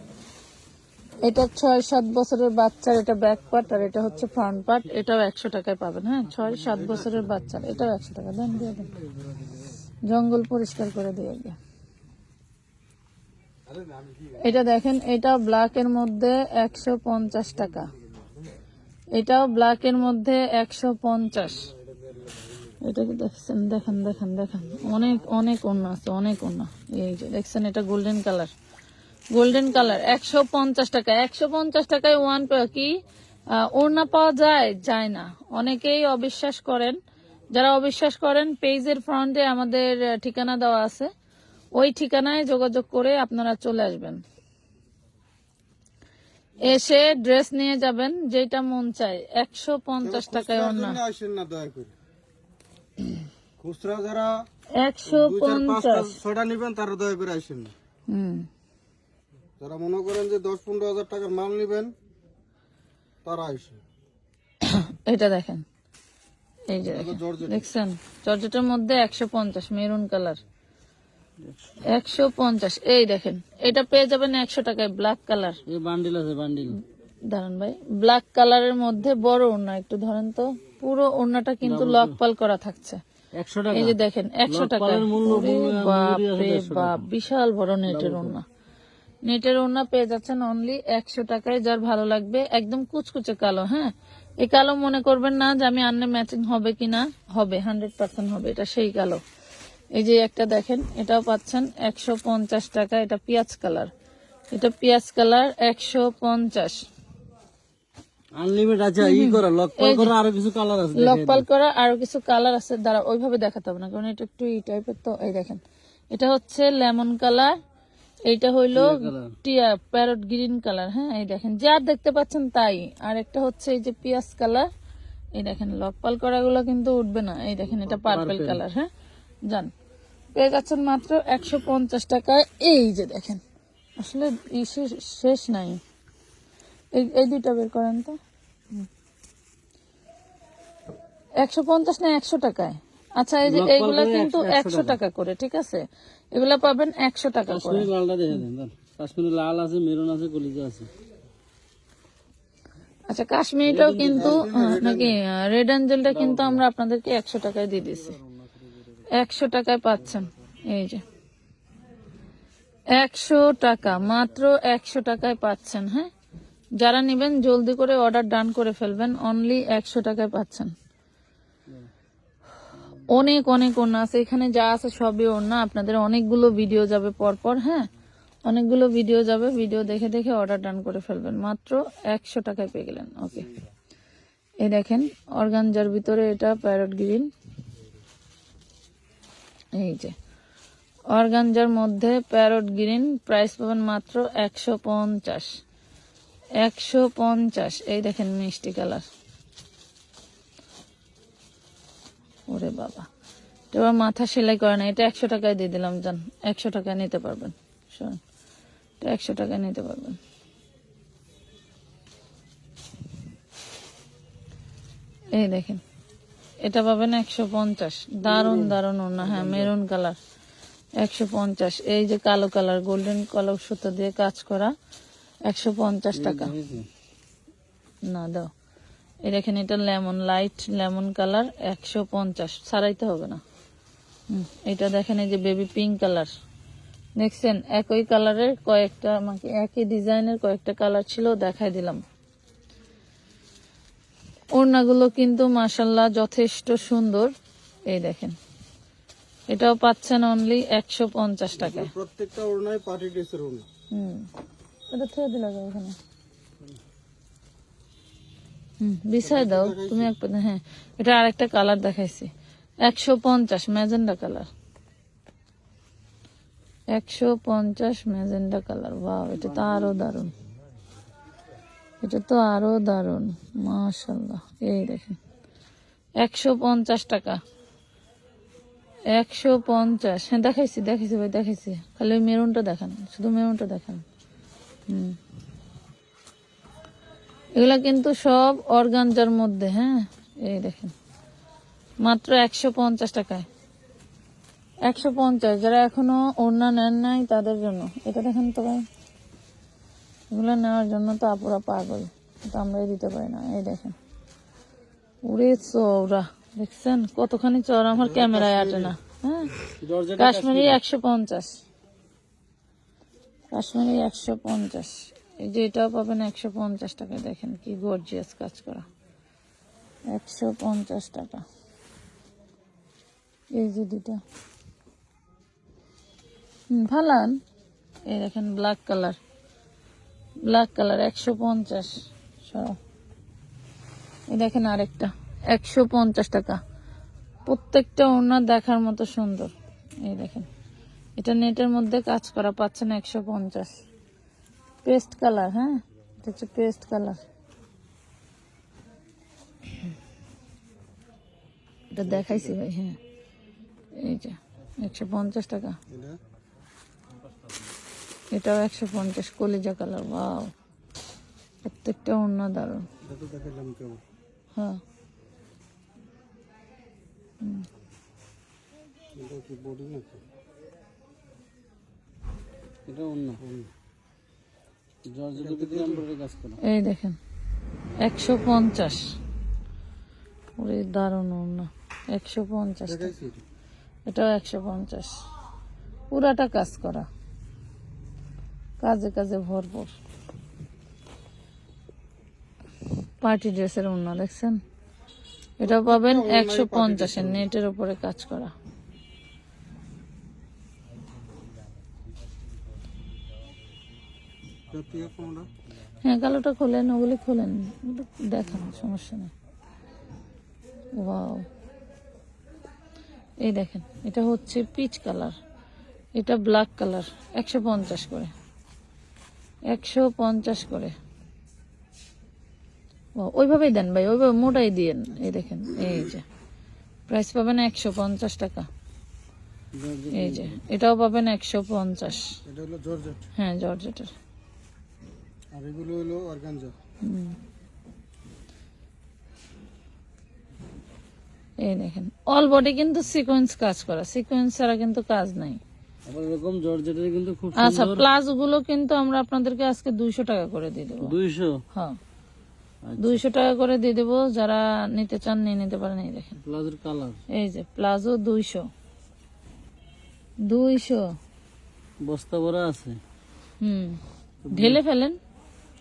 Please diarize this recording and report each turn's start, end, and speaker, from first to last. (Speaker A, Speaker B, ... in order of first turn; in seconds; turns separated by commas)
Speaker A: 1.2-8.9, Speaker A: 10.1-11.6, Speaker A: 14.4-17.9, Speaker A: 19.1-21.7, Speaker A: 22.8-28.5, Speaker A: 29.3-32.9, Speaker A: 33.5-37.0, Speaker A: 37.5-41.1, Speaker A: 41.8-44.2, Speaker A: 46.6-51.0, Speaker B: 50.0-51.9, Speaker B: 53.6-54.5, Speaker A: 54.8-56.2, Speaker B: 55.1-57.7, Speaker A: 58.1-58.5, Speaker B: 59.6-61.9, Speaker B: 63.2-63.8, Speaker A: 64.6-65.6, Speaker A: 66.7-70.4, Speaker B: 66.8-67.7, Speaker C: 71.4-71.8, Speaker A: 71.8-75.6, Speaker C: 75.7-76.8, Speaker A: 77.3-83.0, Speaker C: 81.6-82.2, Speaker C: 83.4-87.1, Speaker A: 83.7-88.4, Speaker C: 87.9-88.4, Speaker A: 89.3-99.2, Speaker A: 100.0-103.9, Speaker A: 104.5-106.8, Speaker C: 108.4-111.5, Speaker A: 109.0-110.1, Speaker A: 111.0-117.5, Speaker A: 118.3-124.7, Speaker C: 118.7-119.3, Speaker A: 125.4-128.9, Speaker C: 127.8-128.6, Speaker A: 130.3-133.4, Speaker A: 134.0-135.8, Speaker A: 136.9-138.2, Speaker A: 141.4-147.9, Speaker C: 143.5-145.0, Speaker C: 147.5-150.9, Speaker A: 153.1-158.2, Speaker C: 153.7-154.5, Speaker B: 154.1-155.2, Speaker C: 156.1-156.6, Speaker A: 159.1-161.0, Speaker A: 162.9-166.1, Speaker A: 166.8-170.7, Speaker A: 173.1-177.9, Speaker A: 178.5-183.5, Speaker A: 184.6-187.3, Speaker A: 189.8-190.2, Speaker A: 191.1-195.5, Speaker A: 196.6-199.1, Speaker A: 202.5-203.1, Speaker A: 203.7-208.2, Speaker A: 209.0-210.2, Speaker A: 215.3-215.8, Speaker A: 216.6-220.2, Speaker C: 218.2-219.7, Speaker A: 221.0-224.7, Speaker A: 225.5-226.5, Speaker C: 226.1-226.9, Speaker A: 228.1-228.5, Speaker A: 229.2-233.4, Speaker A: 234.3-236.3, Speaker A: 237.2-242.0, Speaker A: 244.5-247.3, Speaker A: 247.9-248.4, Speaker A: 249.5-251.9, Speaker B: 251.6-253.7, Speaker A: 253.9-254.3, Speaker A: 254.9-256.0, Speaker A: 258.8-262.3, Speaker B: 259.2-260.1, Speaker A: 262.8-264.5, Speaker A: 266.9-270.3, Speaker B: 269.5-269.8, Speaker A: 272.0-275.2, Speaker A: 276.2-277.4, Speaker A: 279.1-284.0, Speaker A: 284.9-285.2, Speaker A: 287.6-290.9, Speaker A: 292.0-293.5, Speaker A: 294.9-298.8, Speaker A: 300.3-303.9, Speaker A: 305.2-309.5, Speaker B: 307.9-308.9, Speaker C: 309.8-310.8, Speaker A: 310.2-311.6, Speaker A: 313.5-318.9, Speaker A: 320.1-321.4, Speaker A: 323.5-324.2, Speaker A: 326.7-327.4, Speaker A: 328.1-329.2, Speaker A: 330.4-332.8, Speaker A: 334.3-336.6, Speaker A: 337.5-340.5, Speaker A: 341.2-343.8, Speaker A: 344.8-347.2, Speaker A: 351.9-353.0, Speaker B: 352.0-352.6, Speaker A: 353.9-355.8, Speaker B: 355.9-356.2, Speaker A: 358.3-360.5, Speaker A: 361.6-362.9, Speaker B: 363.0-364.0, Speaker A: 364.6-364.8, Speaker B: 369.1-370.2, Speaker C: 372.9-373.4, Speaker B: 373.4-373.7, Speaker C: 375.1-376.6, Speaker B: 375.4-376.0, Speaker A: 376.6-377.2, Speaker A: 378.0-379.1, Speaker A: 380.6-383.1, Speaker B: 382.9-383.4, Speaker A: 384.1-385.2, Speaker A: 386.1-387.1, Speaker A: 388.8-389.9, Speaker A: 393.2-394.6, Speaker A: 395.6-398.5, Speaker B: 395.6-397.5, Speaker B: 404.7-405.5, Speaker A: 406.0-409.3, Speaker A: 411.0-411.5, Speaker A: 413.4-415.4, Speaker A: 416.2-418.3, Speaker A: 419.7-420.9, Speaker A: 423.2-426.2, Speaker A: 427.1-428.7, Speaker C: 429.8-430.6, Speaker A: 430.1-432.3, Speaker B: 432.4-433.2, Speaker A: 433.4-434.1, Speaker B: 435.5-436.7, Speaker A: 437.0-437.4, Speaker A: 441.6-445.6, Speaker C: 446.1-448.1, Speaker A: 447.6-451.2, Speaker C: 451.0-451.6, Speaker C: 452.8-453.2, Speaker A: 453.0-456.4, Speaker C: 456.4-457.2, Speaker A: 457.3-458.7, Speaker A: 460.4-461.2, Speaker C: 462.0-463.0, Speaker A: 463.6-464.0, Speaker C: 464.4-464.8, Speaker A: 464.5-465.2